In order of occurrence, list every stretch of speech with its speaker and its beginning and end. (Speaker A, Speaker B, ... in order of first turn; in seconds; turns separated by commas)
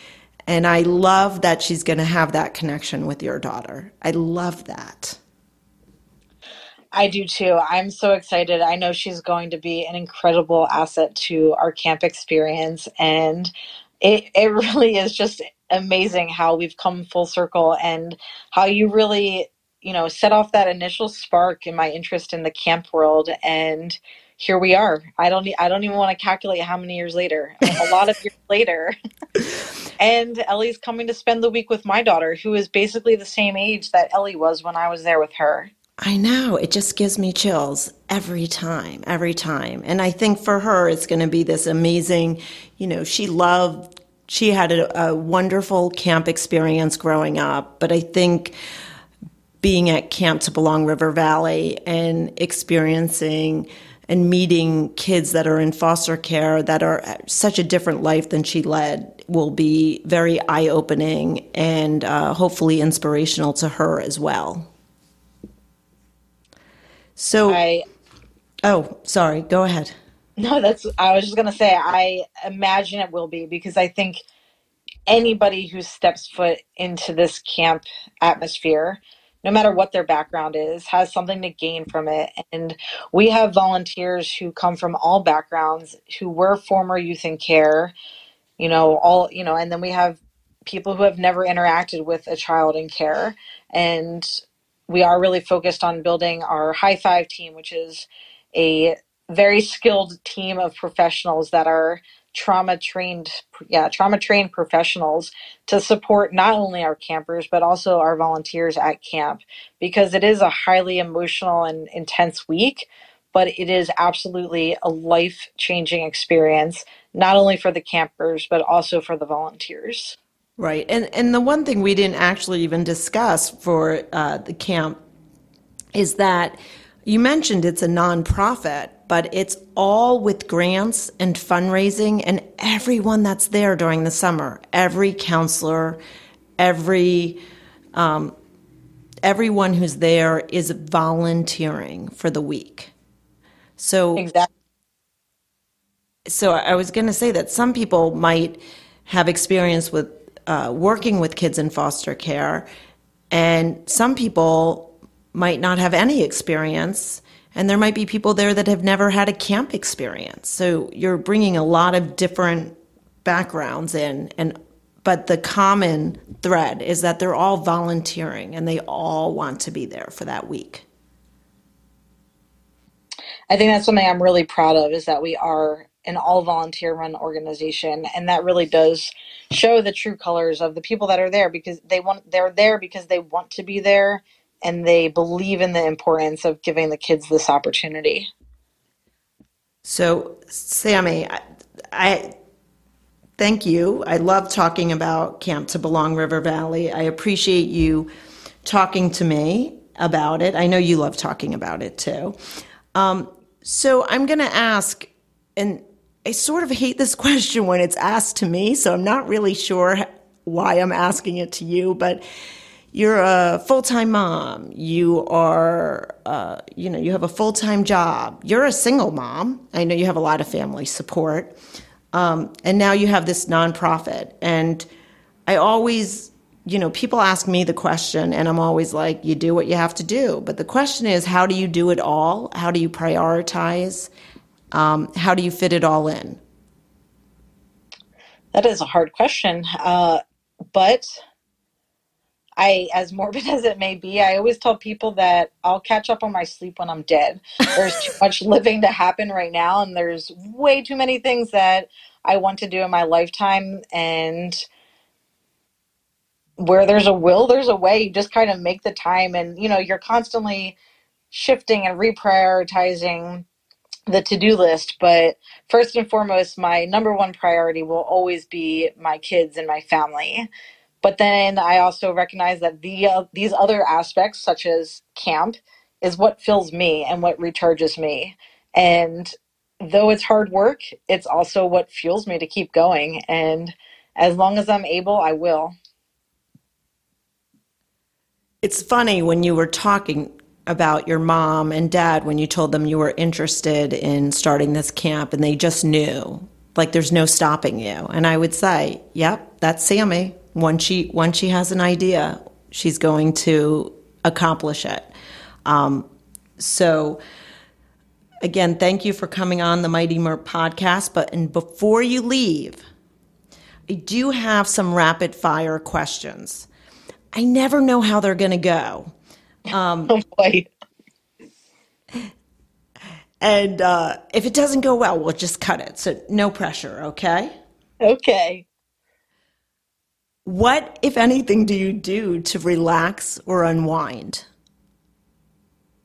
Speaker A: 0.5-5.2, Speaker B: 6.9-28.9, Speaker B: 30.0-35.7, Speaker A: 36.0-48.5, Speaker A: 49.6-64.7, Speaker A: 67.2-67.6, Speaker B: 67.5-67.8, Speaker A: 68.6-69.9, Speaker B: 70.4-74.2, Speaker B: 75.1-87.9, Speaker B: 88.6-120.2, Speaker A: 120.6-125.0, Speaker A: 125.9-136.0, Speaker A: 136.6-137.4, Speaker A: 137.9-138.3, Speaker A: 139.2-142.9, Speaker A: 143.8-144.4, Speaker B: 144.2-144.5, Speaker A: 146.3-152.7, Speaker A: 153.3-170.8, Speaker B: 173.5-188.3, Speaker A: 189.8-191.4, Speaker A: 191.9-192.3, Speaker A: 193.4-198.1, Speaker A: 198.6-202.3, Speaker A: 202.9-212.2, Speaker A: 212.9-221.5, Speaker A: 222.1-224.8, Speaker A: 225.5-234.1, Speaker A: 234.7-236.4, Speaker B: 238.5-241.2, Speaker B: 242.6-254.7, Speaker B: 256.6-260.8, Speaker B: 261.3-263.4, Speaker B: 264.1-270.5, Speaker B: 271.0-285.7, Speaker A: 288.6-305.1, Speaker A: 305.6-306.1, Speaker A: 306.6-307.2, Speaker A: 308.4-312.8, Speaker A: 313.9-316.7, Speaker A: 317.3-319.1, Speaker A: 319.7-320.1, Speaker B: 320.1-320.7, Speaker A: 323.4-327.5, Speaker B: 328.0-328.6, Speaker A: 330.4-334.4